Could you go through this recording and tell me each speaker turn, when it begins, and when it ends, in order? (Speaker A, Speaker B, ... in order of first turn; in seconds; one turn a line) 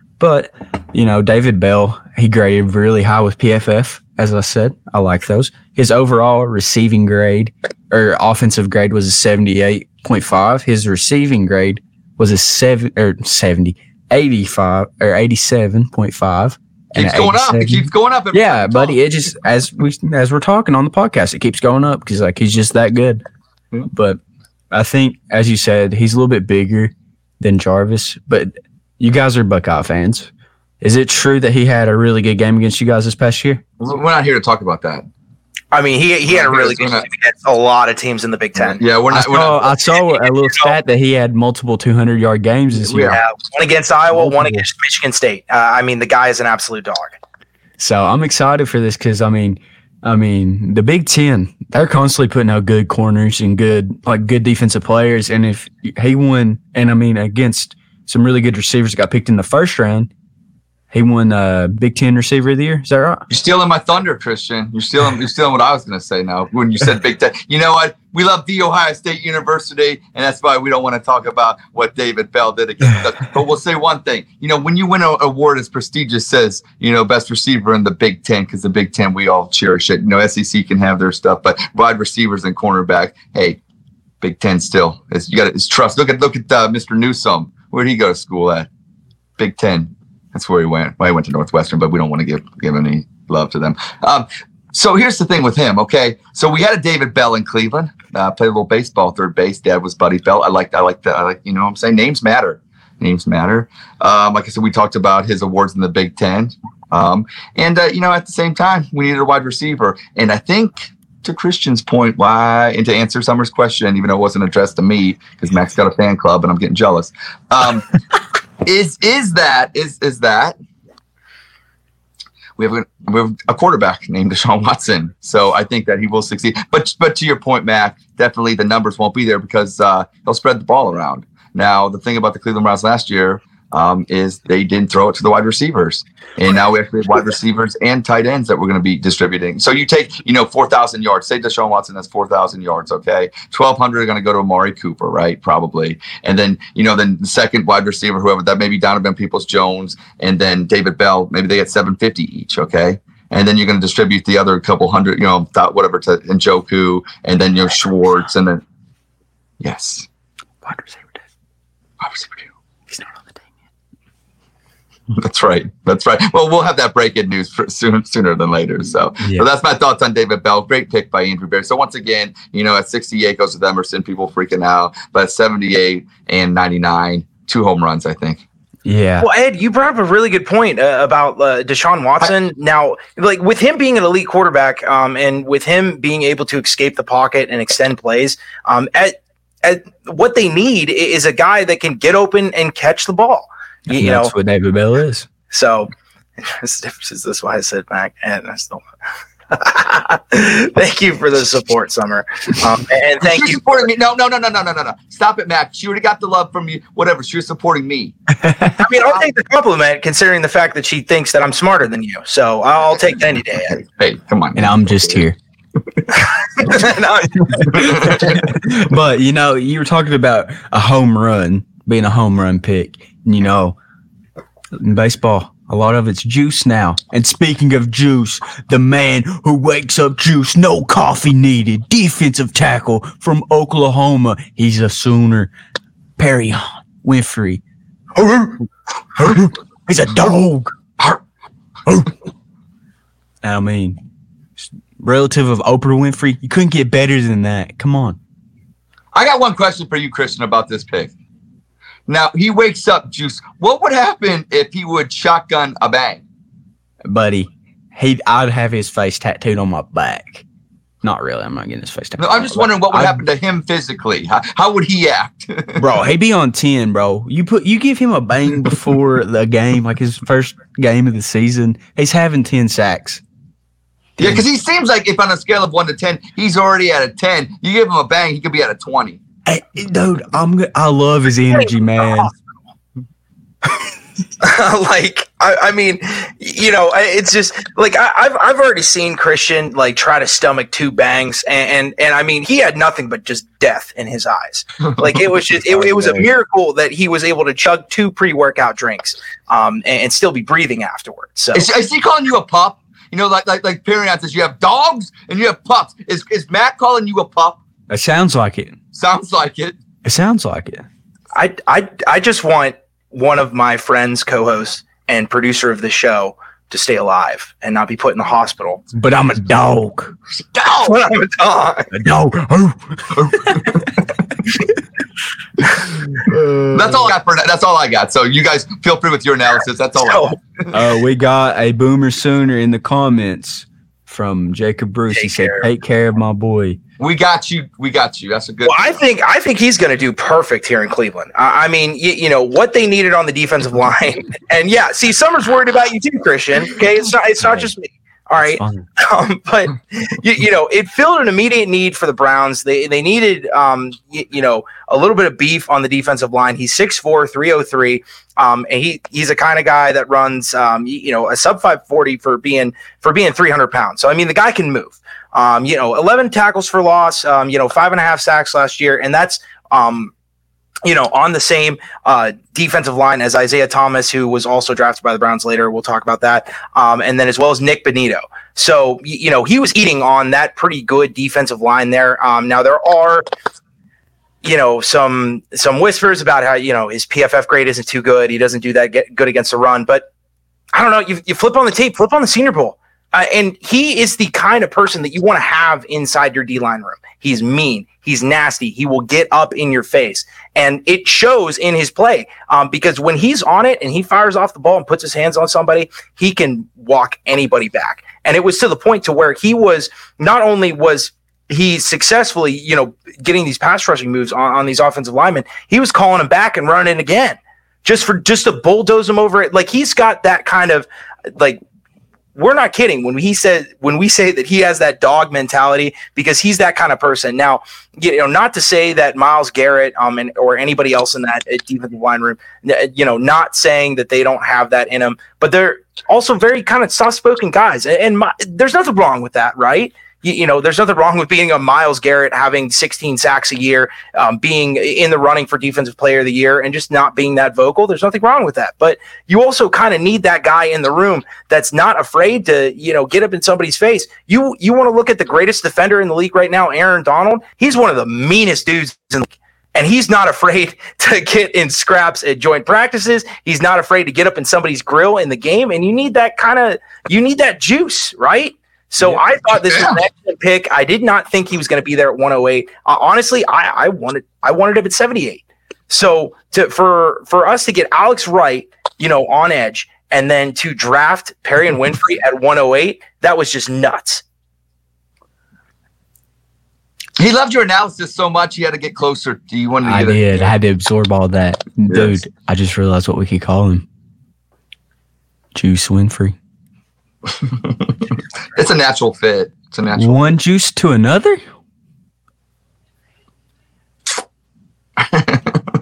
Speaker A: 0.2-23.2
Speaker B: 16.9-19.0
Speaker A: 23.9-24.2
Speaker A: 24.7-30.3
Speaker A: 30.8-33.6
Speaker B: 33.8-35.0
Speaker C: 35.7-38.8
Speaker B: 36.3-37.0
Speaker B: 38.6-39.6
Speaker A: 39.1-43.2
Speaker C: 40.1-40.7
Speaker B: 42.9-43.2
Speaker C: 42.9-47.1
Speaker A: 44.1-44.6
Speaker A: 47.8-60.1
Speaker A: 60.9-63.3
Speaker B: 63.3-83.6
Speaker B: 84.2-88.7
Speaker B: 89.4-117.9
Speaker B: 118.6-120.5
Speaker B: 122.6-158.6
Speaker B: 159.6-160.1
Speaker A: 160.6-161.2
Speaker B: 162.0-162.5
Speaker A: 162.9-163.4
Speaker B: 165.1-178.4
Speaker A: 169.2-169.4
Speaker A: 178.8-179.3
Speaker C: 179.2-194.3
Speaker A: 193.9-195.3
Speaker C: 195.5-195.9
Speaker C: 196.4-198.8
Speaker C: 199.5-203.9
Speaker B: 203.2-208.1
Speaker A: 208.4-208.8
Speaker C: 208.8-213.8
Speaker B: 213.7-215.2
Speaker A: 214.6-215.4
Speaker C: 216.2-217.3
Speaker A: 217.3-223.8
Speaker B: 217.7-218.4
Speaker A: 224.8-235.5
Speaker A: 236.2-237.6
Speaker A: 238.2-241.2
Speaker A: 241.8-242.1
Speaker A: 243.4-244.0
Speaker A: 244.6-248.2
Speaker B: 249.1-251.1
Speaker B: 252.1-256.2
Speaker A: 257.1-260.4
Speaker A: 261.0-263.2
Speaker B: 262.2-265.9
Speaker A: 265.8-273.2
Speaker A: 274.2-274.4
Speaker B: 274.2-279.2
Speaker A: 279.4-282.3
Speaker C: 281.5-282.4
Speaker C: 284.4-301.7
Speaker B: 294.9-295.2
Speaker A: 295.7-296.3
Speaker B: 301.5-307.6
Speaker A: 307.9-308.8
Speaker B: 308.9-309.8
Speaker A: 310.0-310.8
Speaker C: 311.3-318.8
Speaker A: 318.9-320.1
Speaker B: 320.5-321.0
Speaker C: 320.6-321.9
Speaker A: 321.9-323.7
Speaker B: 323.2-323.6
Speaker A: 326.3-326.7
Speaker B: 326.7-330.6
Speaker C: 330.0-330.4
Speaker A: 330.7-336.8
Speaker C: 335.1-335.6
Speaker B: 337.0-339.0
Speaker C: 338.6-370.1
Speaker A: 348.4-348.9
Speaker C: 370.8-383.2
Speaker C: 384.4-390.0
Speaker C: 390.7-421.6
Speaker C: 422.3-484.2
Speaker B: 469.7-470.0
Speaker B: 487.2-490.5
Speaker A: 489.9-493.9
Speaker B: 491.9-492.2
Speaker A: 495.5-496.4
Speaker B: 497.4-498.0
Speaker B: 498.5-500.2
Speaker A: 499.9-501.4
Speaker B: 505.0-505.6